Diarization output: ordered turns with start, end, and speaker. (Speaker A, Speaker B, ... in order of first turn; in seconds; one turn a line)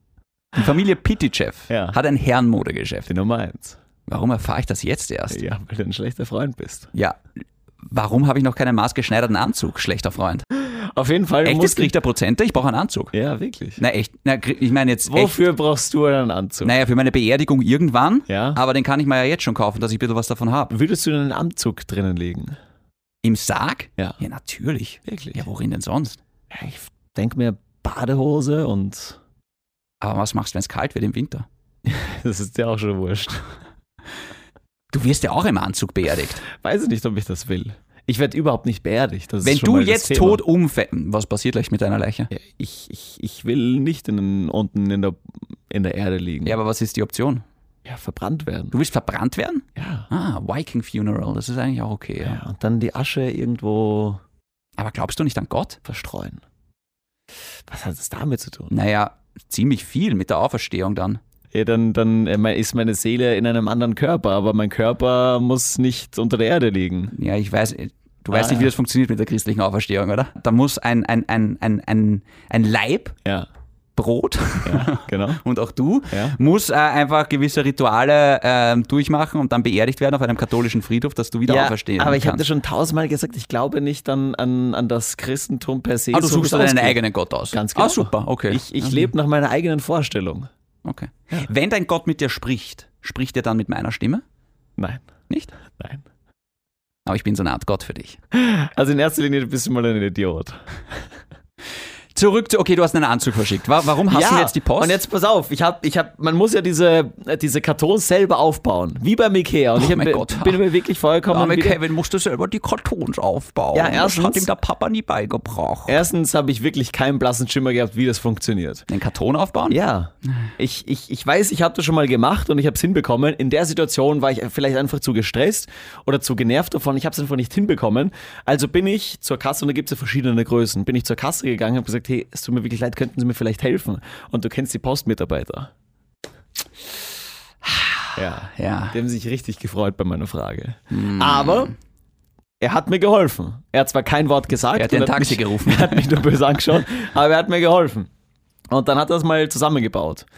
Speaker A: 0.6-3.1
Speaker B: 1.7-2.0
Speaker B: 3.1-3.8
Speaker A: 4.1-5.4
Speaker B: 5.3-6.9
Speaker A: 7.8-10.4
Speaker B: 10.6-11.9
Speaker A: 11.4-13.1
Speaker B: 13.1-13.8
Speaker A: 13.8-15.4
Speaker B: 15.1-16.7
Speaker A: 16.6-20.8
Speaker B: 18.3-18.6
Speaker B: 20.7-22.6
Speaker A: 23.2-26.2
Speaker B: 25.1-25.4
Speaker B: 26.5-29.2
Speaker A: 30.0-31.5
Speaker B: 31.9-33.5
Speaker A: 34.9-36.4
Speaker B: 36.5-40.4
Speaker A: 39.4-42.3
Speaker B: 42.3-46.6
Speaker A: 46.5-47.4
Speaker B: 47.9-48.8
Speaker A: 48.7-52.4
Speaker B: 49.8-50.1
Speaker B: 52.2-54.2
Speaker A: 54.8-55.8
Speaker B: 55.9-56.4
Speaker B: 57.7-58.8
Speaker A: 58.7-61.2
Speaker B: 61.5-67.2
Speaker A: 67.2-73.2
Speaker B: 68.3-68.7
Speaker A: 74.0-82.5
Speaker B: 74.6-75.4
Speaker B: 76.1-76.4
Speaker B: 81.5-90.5
Speaker A: 86.1-89.1
Speaker A: 90.8-94.2
Speaker B: 94.8-95.1
Speaker B: 95.7-96.0
Speaker A: 97.1-98.2
Speaker B: 98.3-100.7
Speaker A: 102.2-105.0
Speaker B: 104.1-111.8
Speaker A: 109.8-110.6
Speaker A: 111.3-116.0
Speaker B: 113.7-114.5
Speaker B: 115.9-118.9
Speaker A: 118.9-119.8
Speaker B: 119.7-135.7
Speaker A: 137.6-139.0
Speaker B: 138.2-141.7
Speaker A: 140.9-141.7
Speaker B: 142.6-148.1
Speaker A: 144.7-146.2
Speaker B: 148.7-150.3